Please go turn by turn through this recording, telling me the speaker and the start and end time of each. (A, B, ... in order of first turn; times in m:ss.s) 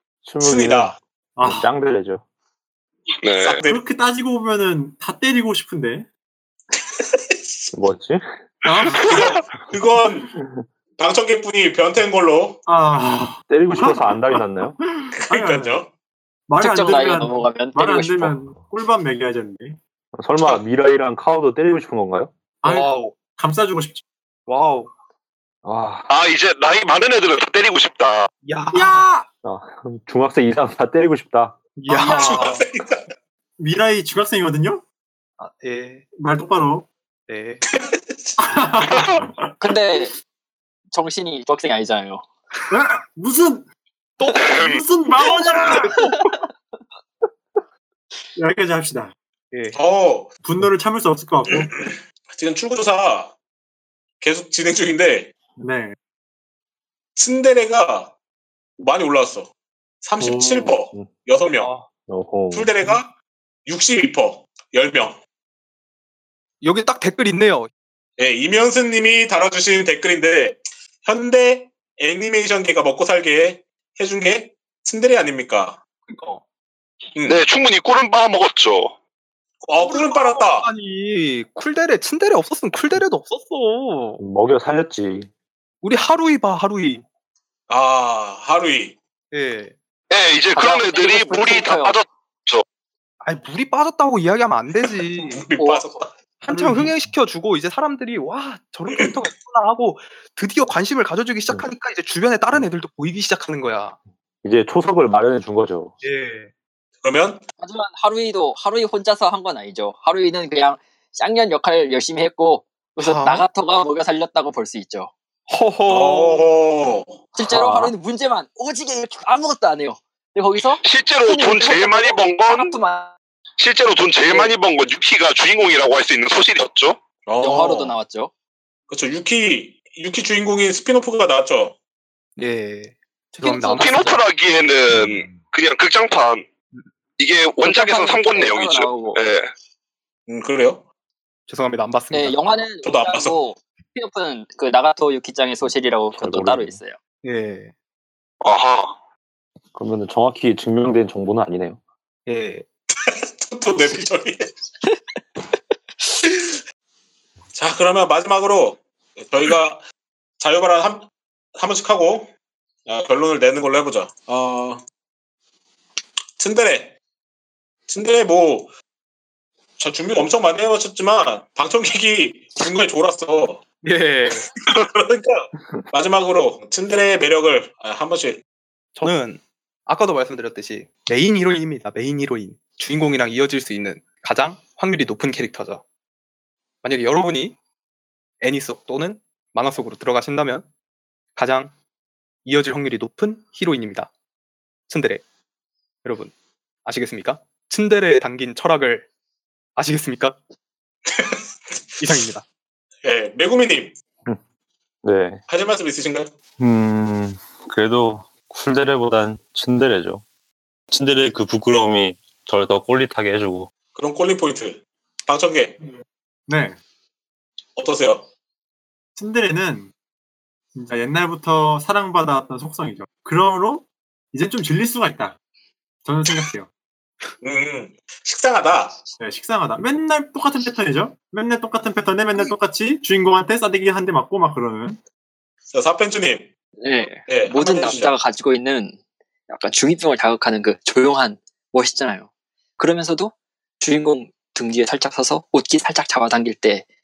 0:00.2-0:02.2 A
0:00.4-0:01.0 B
0:01.4-0:01.7 C
0:03.2-0:03.6 D
0:03.4-0:03.8 B
0:03.7-0:06.1 C
0:07.0-0:07.7 B
0:07.7-0:08.3 A
0:08.6-0:09.3 C
0:09.0-0:09.4 D
0:09.1-0:10.3 B
0:11.0-0:12.6 B
0:12.7-0:14.4 C
0:13.5-0:14.8 A
0:15.0-0:15.8 C
0:15.2-0:15.9 B
0:16.5-0:19.8 C
0:16.6-0:18.4 E
0:20.2-0:22.3 A
0:22.6-0:24.0 C
0:22.6-0:23.2 F
0:24.5-0:24.9 F
0:25.6-0:26.1 A
0:26.1-0:28.3 D
0:28.4-0:29.1 F
0:28.7-0:29.3 C
0:29.4-0:31.6 A
0:31.8-0:32.6 F
0:31.9-0:32.6 C
0:32.0-0:33.1 B
0:33.6-0:34.8 C
0:35.4-0:36.0 F
0:36.1-0:36.9 C
0:37.3-0:37.6 F
0:37.6-0:39.0 B
0:38.4-0:39.6 C
0:39.6-0:40.1 E
0:40.9-0:42.3 E
0:42.7-0:43.7 C
0:44.2-0:44.6 F
0:44.4-0:46.0 C
0:44.4-0:44.8 D
0:45.3-0:46.3 F
0:48.4-0:49.1 C
0:49.5-0:49.8 F
0:49.7-0:50.3 B
0:50.4-0:51.7 C
0:51.5-0:53.3 B
0:54.2-0:55.3 B
0:55.6-0:56.0 C
0:57.2-0:58.1 B
0:58.8-0:59.5 B
1:00.0-1:01.7 B
1:00.2-1:00.8 C
1:01.6-1:01.9 F
1:02.1-1:03.0 A
1:02.5-1:03.1 B
1:03.7-1:05.2 B
1:06.6-1:07.7 F
1:08.2-1:15.8 B
1:16.1-1:16.4 F
1:17.2-1:18.9 D
1:19.6-1:20.7 B
1:19.8-1:24.2 F
1:24.2-1:25.3 A
1:25.8-1:27.0 F
1:27.7-1:29.0 B
1:29.3-1:29.8 F
1:30.1-1:32.6 D
1:30.5-1:32.0 E
1:33.2-1:35.5 F
1:35.2-1:36.1 B
1:35.6-1:35.9 E
1:36.4-1:44.0 F
1:38.9-1:39.1 B
1:44.4-1:46.0 A
1:46.0-1:46.5 F
1:47.0-1:47.5 B
1:47.6-1:55.1 E
1:53.0-1:53.5 F
1:55.5-1:56.4 F
1:55.9-1:57.2 B
1:57.4-2:03.1 E
1:57.4-1:57.9 F
2:00.8-2:02.8 D
2:03.6-2:07.0 D
2:04.2-2:04.5 E
2:07.3-2:08.0 B
2:07.4-2:08.3 E
2:08.9-2:11.8 B
2:12.4-2:14.2 F
2:13.4-2:16.5 D
2:13.5-2:14.1 E
2:17.2-2:19.5 D
2:17.6-2:19.2 E
2:20.3-2:20.8 B
2:21.5-2:22.4 F
2:22.1-2:27.0 E
2:22.8-2:23.4 B
2:26.1-2:26.8 A
2:27.2-2:27.7 F
2:28.4-2:28.9 D
2:29.8-2:31.8 A
2:32.3-2:32.7 F
2:33.0-2:34.5 B
2:37.5-2:39.8 B
2:40.4-2:42.3 B
2:42.9-2:44.8 B
2:46.4-2:47.0 B
2:47.9-2:48.7 B
2:49.8-2:53.6 B
2:53.8-2:54.5 F
2:54.6-2:58.4 B
2:59.0-3:05.8 F
3:06.8-3:07.6 F
3:08.4-3:10.7 F
3:11.4-3:11.7 F
3:12.4-3:14.1 F
3:14.9-3:15.2 F
3:16.0-3:16.3 F
3:16.8-3:19.1 F
3:19.8-3:20.4 F
3:21.1-3:21.4 B
3:22.0-3:22.4 F
3:23.0-3:24.0 B
3:25.0-3:25.4 A
3:25.5-3:26.3 B
3:26.6-3:30.2 A
3:30.9-3:33.7 A
3:34.0-3:35.8 B
3:36.5-3:36.8 C
3:37.8-3:38.3 B
3:39.2-3:39.9 C
3:40.8-3:45.4 C
3:46.1-3:46.7 C
3:47.4-3:49.0 B
3:49.2-3:55.0 C
3:55.7-3:56.5 B
3:56.8-3:59.0 E
3:57.3-3:58.2 B
3:59.5-4:06.8 E